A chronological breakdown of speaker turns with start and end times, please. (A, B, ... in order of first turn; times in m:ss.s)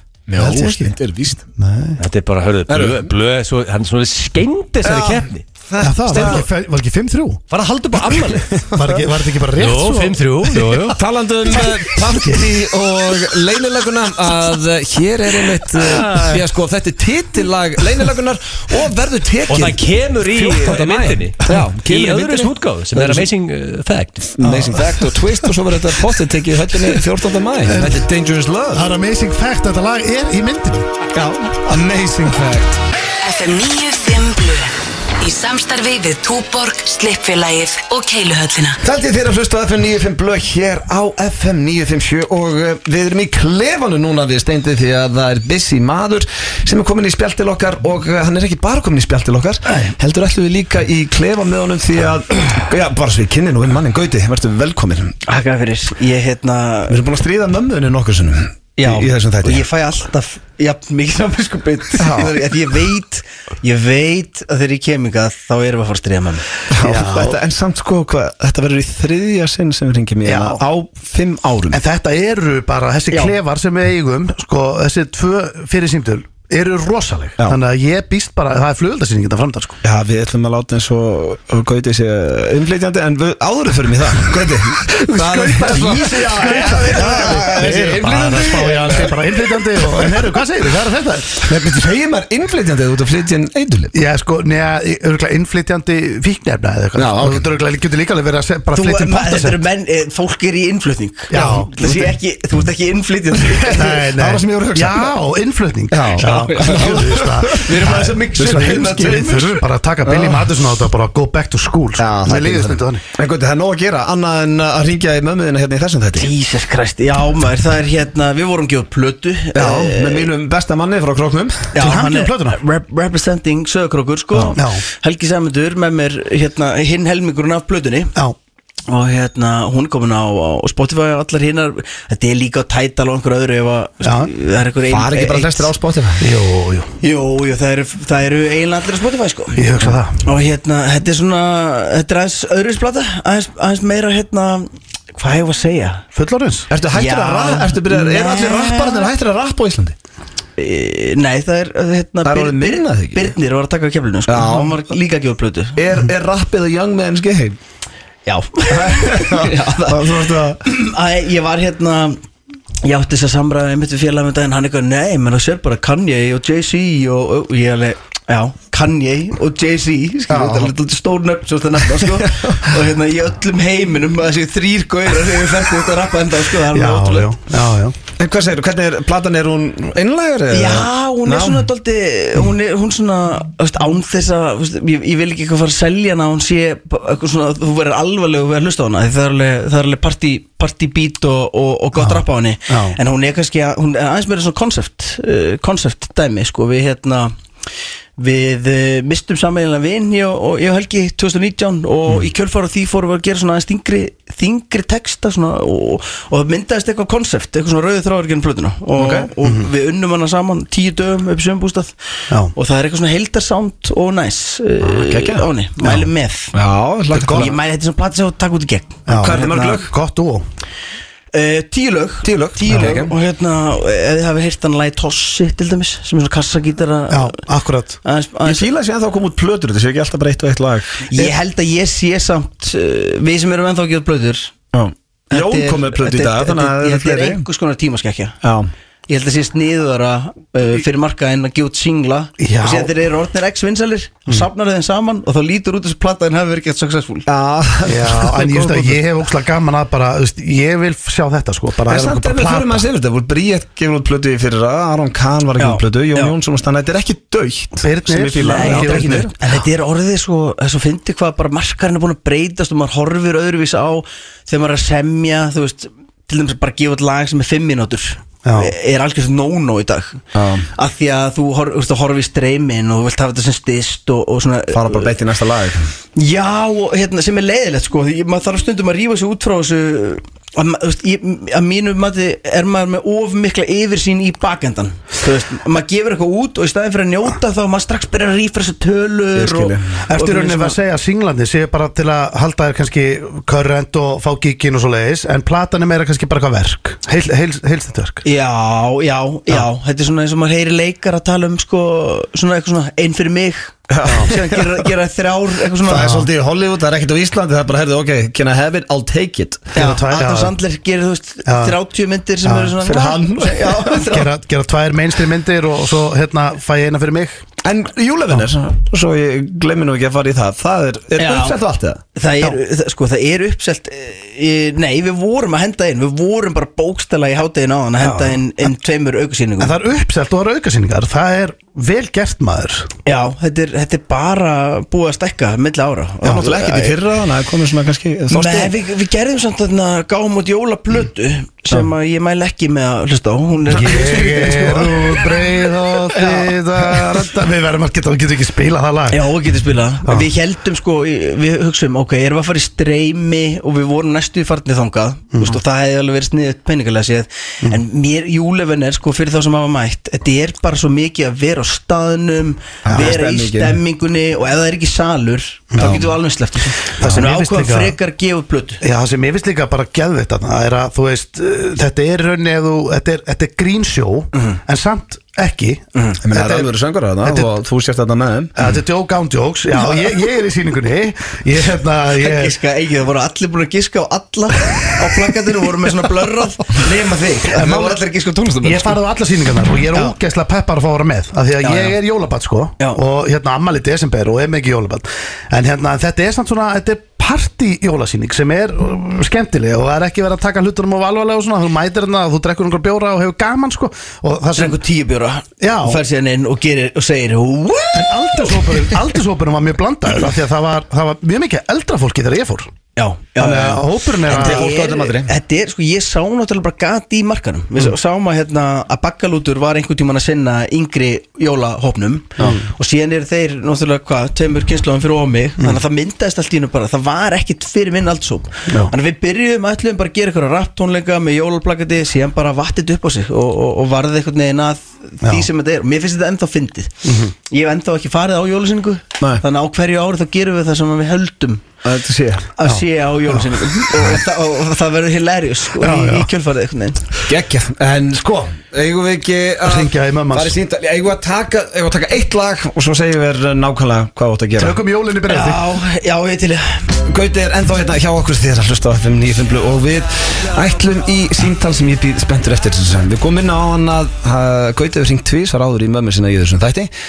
0:00.3-0:01.4 A
0:00.4-0:01.0 B
0:01.5-0:02.0 B
0:02.0-0:05.4 C
0:02.7-0:03.0 A
0:04.8-0:06.4 A
0:05.8-0:07.4 B
0:06.1-0:06.4 C
0:07.5-0:08.5 C
0:08.2-0:09.0 A
0:08.7-0:10.7 B
0:09.6-0:11.0 C
0:10.9-0:23.3 A
0:11.5-0:12.6 B
0:15.7-0:16.4 C
0:19.5-0:24.3 C
0:24.4-0:28.9 A
0:24.4-0:25.1 B
0:27.6-0:28.0 B
0:28.7-0:30.9 B
0:31.1-0:32.8 A
0:33.2-0:38.8 D
0:38.8-0:55.2 A
0:49.7-0:49.9 B
0:55.3-0:57.0 E
0:56.9-0:59.6 A
0:58.8-1:06.4 E
1:02.0-1:02.3 A
1:06.7-1:11.8 A
1:06.8-1:07.4 B
1:10.2-1:10.6 B
1:11.7-1:19.8 B
1:19.8-1:30.2 A
1:25.0-1:31.5 B
1:28.0-1:28.6 C
1:31.3-1:33.9 A
1:33.9-1:39.6 B
1:37.0-1:37.5 A
1:38.7-1:43.9 E
1:41.3-1:42.0 B
1:41.3-1:42.0 A
1:43.4-1:45.2 A
1:43.8-1:53.0 B
1:45.9-1:50.5 A
1:52.0-1:56.3 A
1:56.2-2:00.3 E
1:59.5-2:01.7 A
2:01.7-2:08.1 E
2:01.8-2:02.6 B
2:04.5-2:04.8 B
2:08.9-2:15.7 E
2:14.0-2:14.3 B
2:14.9-2:16.2 A
2:16.2-2:16.9 B
2:17.0-2:26.0 E
2:19.6-2:20.3 B
2:26.1-2:26.7 B
2:26.7-2:29.9 A
2:26.9-2:29.1 E
2:30.6-2:35.8 E
2:32.2-2:33.3 A
2:34.3-2:34.8 A
2:35.8-2:37.6 A
2:38.2-2:42.2 E
2:38.7-2:40.6 A
2:42.8-2:57.3 E
2:50.3-2:50.7 A
2:52.0-2:52.7 A
2:56.7-2:58.0 B
2:58.2-3:01.7 A
3:00.5-3:17.3 E
3:12.0-3:13.0 B
3:18.2-3:31.9 E
3:29.0-3:29.3 A
3:29.4-3:29.7 B
3:32.5-3:36.5 E
3:34.8-3:35.5 A
3:35.8-3:36.1 B
3:36.5-3:37.5 A
3:37.1-3:39.9 E
3:37.1-3:37.5 B
3:39.1-3:40.4 B
3:39.1-3:39.9 A
3:41.3-3:47.3 E
3:42.2-3:43.1 A
3:42.7-3:43.0 B
3:47.1-3:48.0 B
3:48.0-3:48.7 E
3:48.4-3:51.3 A
3:51.1-3:54.5 E
3:54.7-3:57.4 A
3:55.3-3:58.4 E
3:58.4-3:58.7 A
3:59.1-4:07.3 E
4:02.4-4:02.9 B
4:07.3-4:09.0 A
4:07.8-4:12.9 B
4:11.8-4:19.3 A
4:15.6-4:16.3 E
4:17.8-4:19.3 B
4:18.4-4:30.2 E
4:28.4-4:28.7 B
4:30.3-4:30.7 A
4:30.7-4:35.2 E
4:34.7-4:35.9 A
4:36.2-4:50.8 E
4:49.3-4:50.0 A
4:50.1-4:58.2 B
4:58.2-5:06.2 E
5:03.9-5:04.9 A
5:04.1-5:04.3 B
5:05.8-5:09.8 A
5:06.0-5:06.2 B
5:09.7-5:14.3 E
5:09.8-5:10.6 B
5:11.4-5:11.8 B
5:12.4-5:12.7 B
5:12.8-5:14.0 A
5:13.9-5:17.4 B
5:17.6-5:22.0 A
5:21.2-5:21.6 E
5:22.2-5:29.7 E
5:28.0-5:28.4 B
5:29.6-5:32.9 B
5:33.0-5:37.0 E
5:36.2-5:38.7 A
5:38.3-5:45.4 E
5:43.7-5:49.3 B
5:46.1-5:46.5 E
5:49.1-6:08.8 E
5:55.3-5:55.6 B
6:02.8-6:03.8 A
6:02.9-6:03.2 B
6:05.7-6:06.0 B
6:05.8-6:06.1 A
6:07.0-6:07.9 B
6:08.8-6:16.7 B
6:16.2-6:18.6 A
6:17.2-6:17.5 B
6:18.6-6:22.5 B
6:22.2-6:28.1 E
6:27.5-6:29.0 A
6:28.6-6:44.8 B
6:31.6-6:31.9 E
6:44.5-6:48.6 E
6:45.6-6:46.0 B
6:47.9-6:52.7 B
6:53.0-7:16.9 E
6:53.4-6:54.7 B
6:54.2-6:55.3 A
7:02.4-7:02.6 B
7:08.7-7:08.9 B
7:17.0-7:17.3 B
7:17.5-7:21.6 E
7:21.8-7:22.5 A
7:22.6-7:27.0 E
7:22.6-7:23.4 B
7:25.8-7:26.3 B
7:27.3-7:34.8 A
7:29.6-7:30.6 B
7:34.6-7:35.6 B
7:35.3-7:36.8 E
7:37.1-7:46.9 A